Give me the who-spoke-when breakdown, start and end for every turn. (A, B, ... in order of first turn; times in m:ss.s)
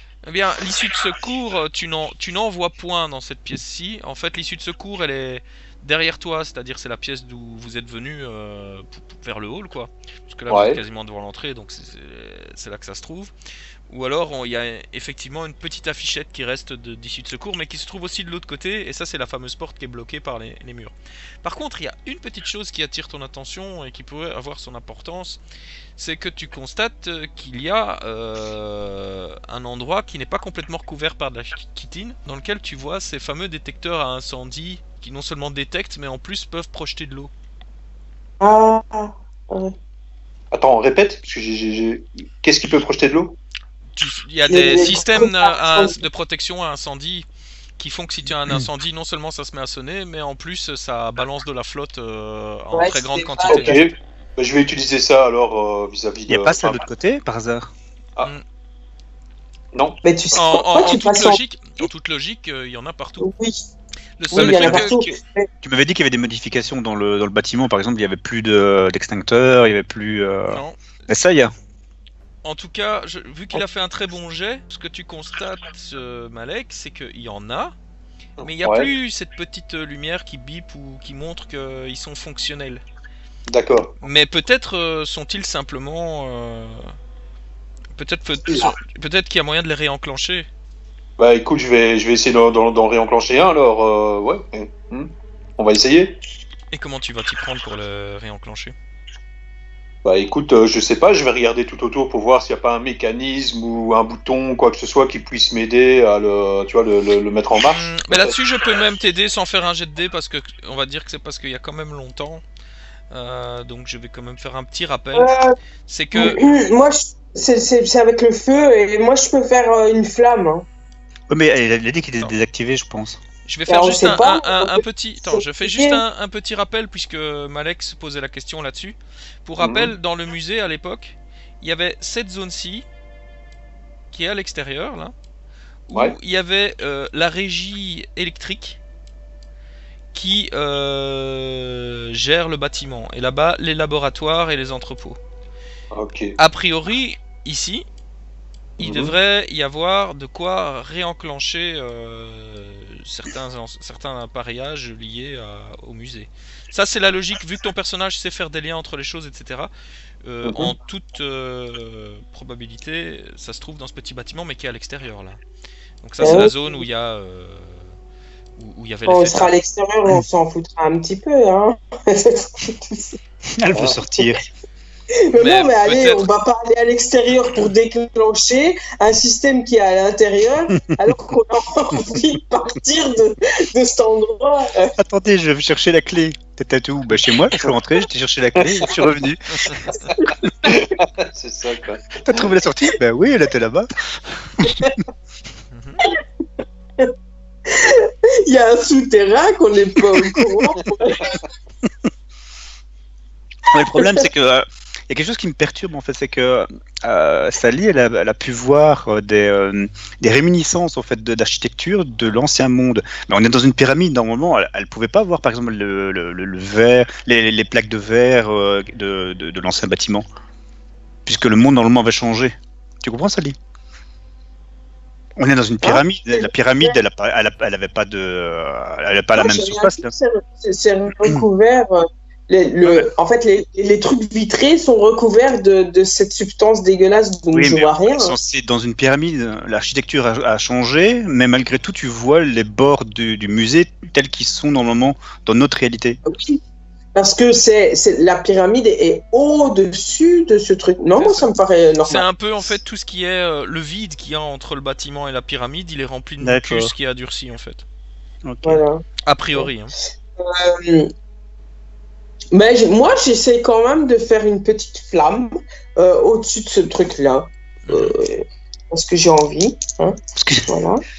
0:00.2-0:13.3 A
0:10.5-0:10.8 B
0:13.9-0:25.4 A
0:26.0-0:37.3 A
0:38.4-0:39.7 C
0:40.5-0:43.4 B
0:43.9-0:47.3 A
0:44.5-0:46.0 C
0:47.8-0:53.9 A
0:52.7-0:53.8 C
0:53.5-0:56.8 B
0:56.3-0:57.7 D
0:59.7-1:00.0 B
1:00.0-1:01.4 C
1:00.3-1:03.3 A
1:03.2-1:03.6 C
1:04.2-1:05.1 A
1:04.3-1:05.5 C
1:04.3-1:04.6 B
1:05.6-1:11.5 D
1:10.5-1:10.8 A
1:12.4-1:17.7 A
1:18.4-1:18.9 B
1:18.4-1:22.8 A
1:23.5-1:23.9 B
1:24.0-1:26.9 A
1:28.0-1:30.5 A
1:28.5-1:28.7 B
1:31.2-1:36.2 B
1:36.7-1:38.7 A
1:40.0-1:48.3 B
1:47.6-1:52.4 A
1:53.1-1:55.4 A
1:55.1-1:55.5 C
1:55.9-1:56.4 A
1:56.1-2:00.6 C
2:01.3-2:03.2 D
2:03.4-2:12.8 A
2:03.7-2:06.0 C
2:09.6-2:09.9 B
2:14.1-2:15.1 A
2:15.9-2:18.8 A
2:20.1-2:25.2 A
2:25.9-2:26.3 B
2:26.4-2:27.8 A
2:28.8-2:29.1 B
2:28.8-2:39.7 A
2:40.2-2:45.4 A
2:46.0-2:47.9 A
2:46.2-2:46.8 C
2:48.6-2:49.6 A
2:49.1-2:53.2 C
2:53.6-2:54.4 D
2:53.7-2:54.0 B
2:55.2-3:04.9 C
2:55.4-2:56.2 A
3:05.0-3:09.8 D
3:08.6-3:09.0 B
3:09.6-3:10.0 A
3:10.1-3:10.7 C
3:10.6-3:12.0 B
3:12.2-3:13.9 D
3:14.6-3:15.0 C
3:15.7-3:16.0 A
3:17.6-3:21.4 C
3:23.7-3:40.2 D
3:24.0-3:24.3 C
3:41.2-3:43.6 D
3:45.4-3:50.1 D
3:45.8-3:47.0 C
3:49.4-3:58.3 C
3:52.8-3:53.1 D
3:57.5-4:06.2 D
4:06.2-4:06.6 C
4:07.1-4:12.2 C
4:11.1-4:11.5 A
4:12.0-4:17.8 A
4:16.4-4:16.9 D
4:18.4-4:18.8 D
4:18.6-4:19.0 C
4:19.2-4:19.9 A
4:20.4-4:21.1 C
4:22.5-4:31.0 C
4:27.8-4:28.2 A
4:30.4-4:30.7 D